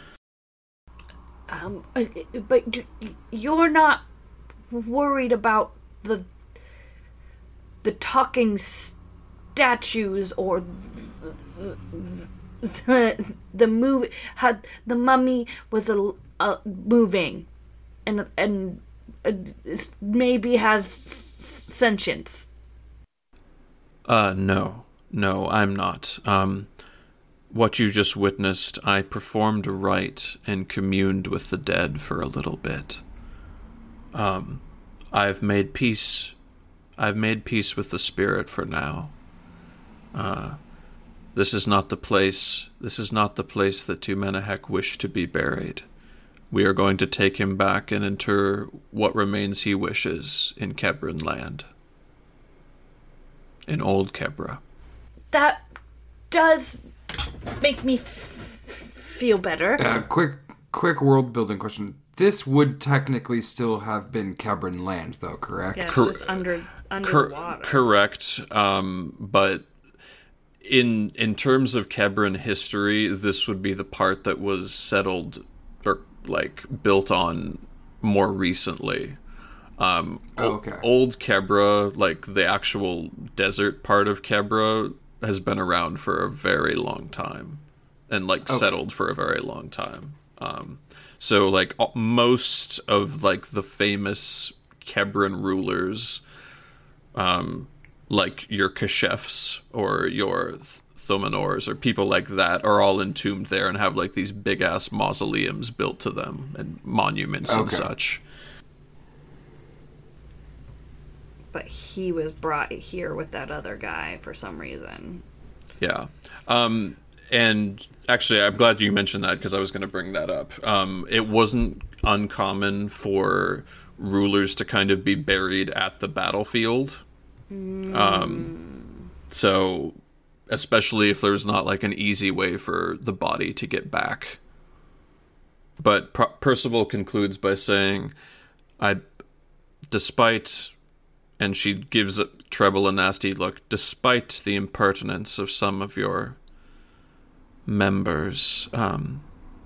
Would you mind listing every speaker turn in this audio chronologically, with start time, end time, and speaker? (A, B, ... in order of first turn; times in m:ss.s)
0:01.5-0:04.0 A
0:04.7-0:06.3 A
0:07.8-0:08.9 A
0:09.5-0:17.4 A
0:18.0-0:22.5 A
0:24.0-0:26.7 B
0:27.5-0:33.0 B
0:34.1-0:36.3 B
0:37.0-0:39.1 B
0:40.1-0:40.6 B
0:41.3-0:45.8 B
0:46.5-0:51.7 B
0:53.7-0:54.6 B
0:55.3-0:55.6 A
0:56.3-0:56.8 A
0:57.6-0:59.9 A
0:59.8-1:06.2 C
1:05.7-1:07.8 A
1:05.9-1:06.4 B
1:07.0-1:09.7 B
1:10.6-1:19.2 B
1:19.8-1:36.2 B
1:20.4-1:20.9 C
1:37.1-1:48.2 B
1:47.4-1:47.9 C
1:51.5-1:55.2 A
1:55.8-2:07.0 B
2:07.5-2:09.0 A
2:07.9-2:08.5 B
2:09.3-2:10.0 B
2:10.5-2:14.4 B
2:15.8-2:18.1 B
2:19.9-2:20.7 B
2:21.4-2:26.4 B
2:27.6-2:29.2 B